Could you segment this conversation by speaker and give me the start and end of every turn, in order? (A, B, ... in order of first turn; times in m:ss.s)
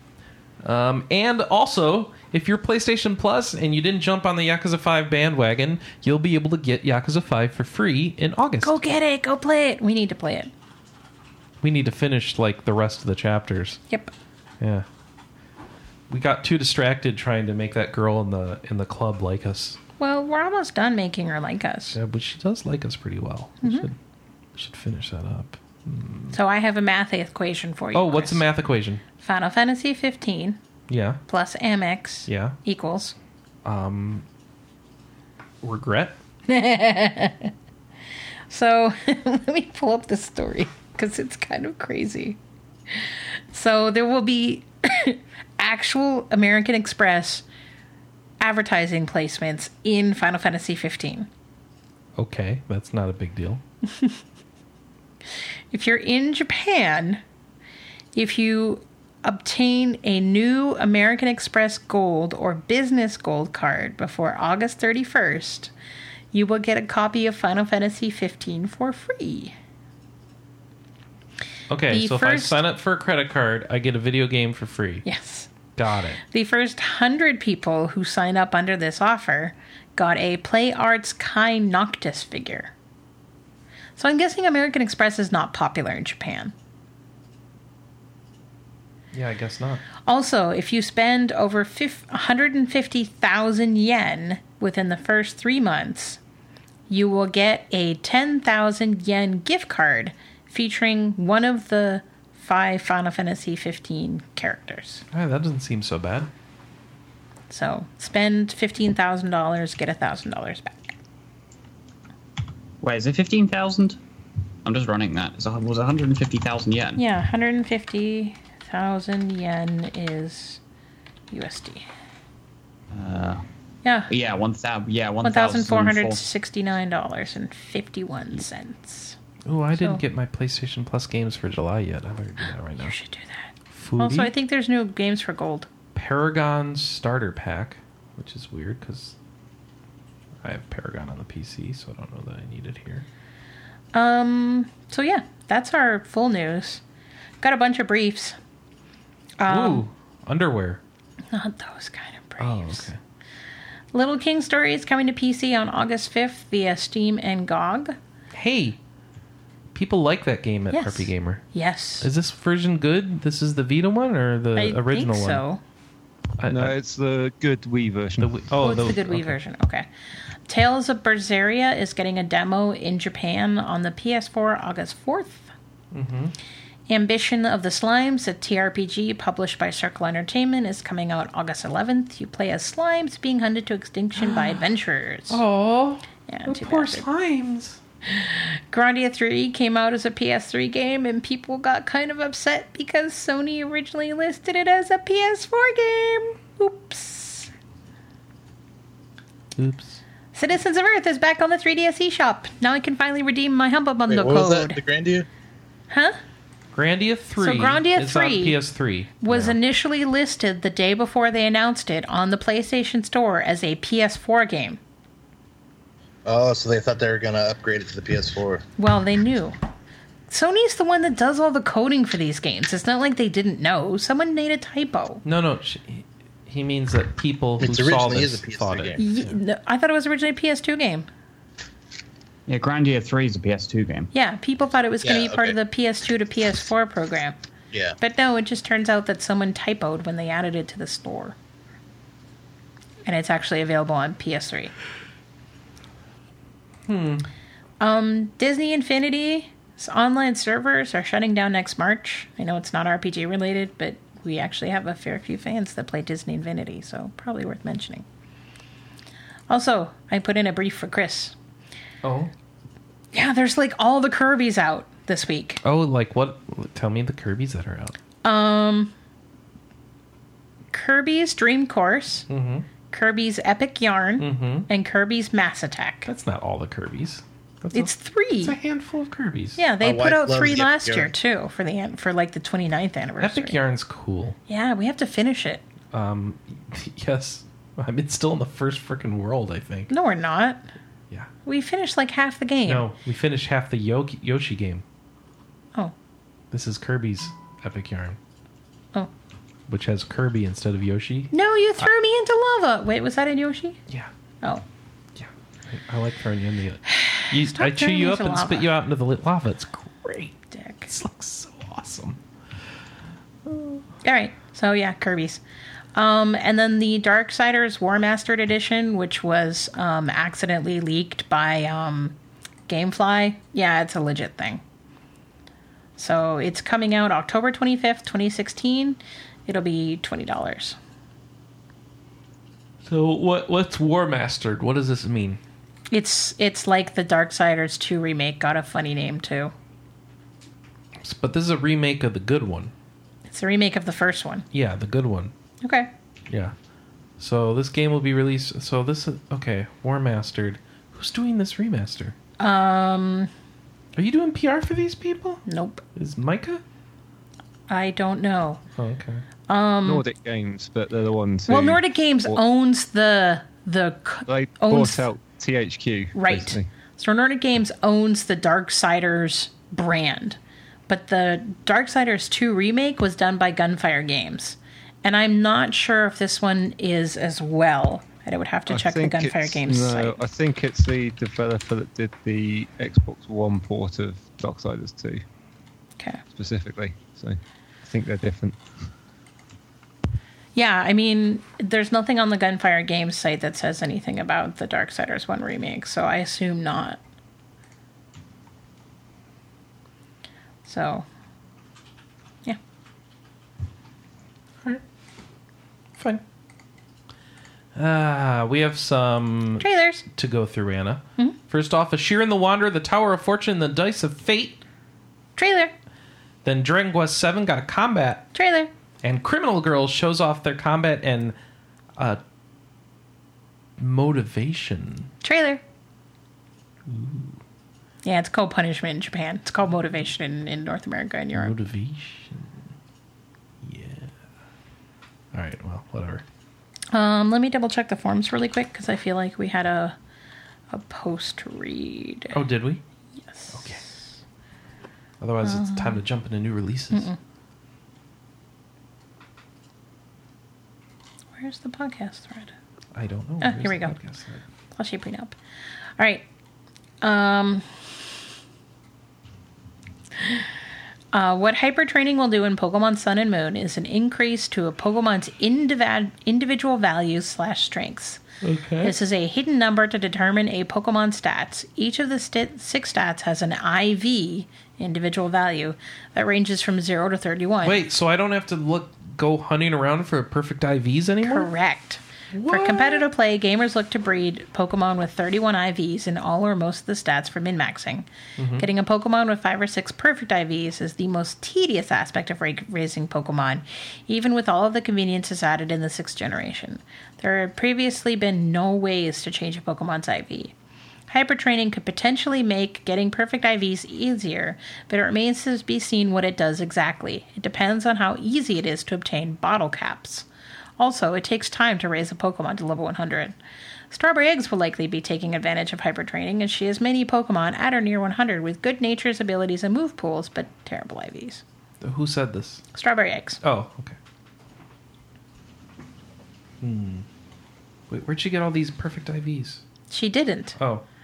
0:00.6-0:08.8 A
0:08.6-0:10.5 B
0:11.6-0:13.8 A
0:14.6-0:14.9 A
0:16.1-0:19.8 A
0:20.0-0:22.0 B
0:21.9-0:24.0 A
0:23.6-0:23.9 B
0:24.6-0:26.4 A
0:26.3-0:28.4 B
0:27.9-0:29.0 A
0:29.2-0:30.6 B
0:30.9-0:31.2 A
0:31.3-0:33.2 B
0:32.3-0:32.6 A
0:33.6-0:34.3 A
0:35.6-0:36.2 A
0:36.5-0:37.5 B
0:38.5-0:42.4 B
0:42.9-0:47.4 B
0:48.4-0:51.3 B
0:52.2-0:53.6 A
0:55.7-0:57.2 B
0:58.1-1:05.7 B
1:06.3-1:09.6 B
1:11.7-1:15.1 A
1:11.9-1:12.6 B
1:15.0-1:15.5 B
1:15.8-1:16.2 A
1:16.2-1:22.7 B
1:24.0-1:26.5 B
1:29.1-1:29.8 A
1:30.1-1:36.2 B
1:36.9-1:45.0 B
1:45.1-1:46.3 A
1:47.5-1:50.9 B
1:52.8-1:54.0 C
1:54.6-1:57.0 C
1:57.0-2:00.6 B
2:01.3-2:01.8 B
2:02.9-2:03.4 C
2:03.8-2:04.1 B
2:04.1-2:06.2 C
2:05.2-2:09.2 B
2:09.5-2:13.0 A
2:12.8-2:15.7 B
2:13.7-2:14.3 A
2:16.0-2:19.2 A
2:20.4-2:23.1 A
2:23.9-2:26.8 B
2:27.4-2:28.4 B
2:29.4-2:29.8 B
2:29.5-2:30.8 A
2:31.3-2:32.9 B
2:32.4-2:33.0 A
2:33.9-2:38.0 B
2:38.3-2:38.8 A
2:39.7-2:41.4 A
2:40.7-2:42.1 B
2:42.0-2:45.4 A
2:44.6-2:45.6 B
2:46.4-2:46.8 A
2:46.5-2:48.5 D
2:48.2-2:49.4 A
2:48.6-2:49.9 B
2:50.5-2:55.5 B
2:55.9-2:56.4 A
2:56.9-3:05.4 B
3:04.2-3:04.6 A
3:05.3-3:07.8 A
3:06.3-3:07.0 B
3:08.0-3:17.5 B
3:19.6-3:20.0 A
3:20.3-3:24.8 B
3:24.1-3:25.3 E
3:25.9-3:26.2 B
3:26.7-3:29.6 A
3:27.4-3:28.6 B
3:29.2-3:34.8 B
3:36.2-3:38.6 E
3:38.8-3:39.6 B
3:40.3-3:45.2 B
3:45.2-3:49.4 A
3:47.6-3:49.0 E
3:49.0-3:51.1 B
3:52.5-3:54.1 C
3:54.1-3:57.4 B
3:55.0-3:55.6 E
3:58.0-4:01.4 B
4:03.0-4:04.7 B
4:06.9-4:07.3 A
4:07.8-4:18.0 B
4:19.5-4:21.4 B
4:22.0-4:22.3 A
4:23.1-4:25.6 B
4:25.6-4:28.0 A
4:28.2-4:28.9 B
4:30.7-4:32.3 B
4:32.3-4:32.7 A
4:32.9-4:36.1 B
4:34.2-4:34.7 A
4:36.1-4:39.6 A
4:37.7-4:38.6 B
4:39.6-4:43.6 B
4:39.8-4:41.1 E
4:43.2-4:44.4 A
4:44.5-4:45.6 B
4:45.9-4:49.9 A
4:49.9-4:50.6 B
4:51.5-4:52.9 B
4:52.6-4:54.8 A
4:56.5-4:58.2 A
4:59.7-5:01.3 A
5:01.3-5:03.8 B
5:05.2-5:10.4 A
5:06.9-5:08.7 B
5:10.5-5:10.9 B
5:10.9-5:12.2 A
5:13.5-5:13.8 A
5:14.0-5:15.4 B
5:16.0-5:22.2 B
5:22.7-5:24.6 B
5:26.0-5:30.8 B
5:32.8-5:35.4 A
5:35.9-5:39.5 B
5:41.0-5:42.7 A
5:43.3-5:44.5 B
5:44.5-5:45.3 A
5:45.6-5:45.9 B
5:47.2-5:52.2 A
5:52.4-5:53.3 B
5:54.0-5:55.4 A
5:55.5-5:55.8 B
5:56.0-5:56.6 A
5:57.7-5:58.6 B
5:58.8-5:59.2 A
5:59.5-6:00.0 B
5:59.8-6:02.4 D
6:01.5-6:05.1 B
6:04.3-6:06.7 D
6:06.1-6:20.2 B
6:18.7-6:25.2 D
6:26.3-6:28.6 D
6:30.6-6:37.0 B
6:40.6-6:41.1 B
6:46.0-6:46.2 A
6:47.8-6:54.6 A
6:49.6-6:50.0 B
6:55.4-6:55.7 B
6:56.4-6:58.3 A
6:58.3-6:58.7 B
6:59.0-7:01.4 A
7:03.8-7:05.1 A
7:05.2-7:05.6 B
7:06.9-7:07.4 A
7:08.0-7:11.6 B
7:11.4-7:12.5 A
7:13.6-7:14.1 A
7:15.3-7:16.2 A
7:16.9-7:20.0 B
7:20.7-7:22.4 B
7:22.3-7:22.8 A
7:23.3-7:24.1 B
7:23.5-7:23.8 A
7:25.2-7:27.1 A
7:25.4-7:26.0 B
7:26.9-7:27.2 B
7:31.4-7:32.5 B
7:33.0-7:34.4 A
7:33.4-7:34.0 B
7:34.7-7:35.4 B
7:36.0-7:36.2 B
7:37.0-7:37.7 B
7:40.2-7:40.5 B
7:41.1-7:48.2 B
7:48.4-7:49.0 A
7:48.8-7:57.8 B
7:57.6-8:01.5 A
8:01.2-8:20.5 B
8:02.3-8:03.0 A
8:08.4-8:08.7 A
8:21.1-8:30.3 B
8:30.8-8:33.4 B
8:33.9-8:41.4 B
8:41.8-8:42.6 A
8:42.7-8:43.4 B
8:43.4-8:44.0 A
8:46.6-8:47.1 A
8:47.9-8:49.6 A
8:49.9-8:50.6 B
8:50.6-8:50.8 A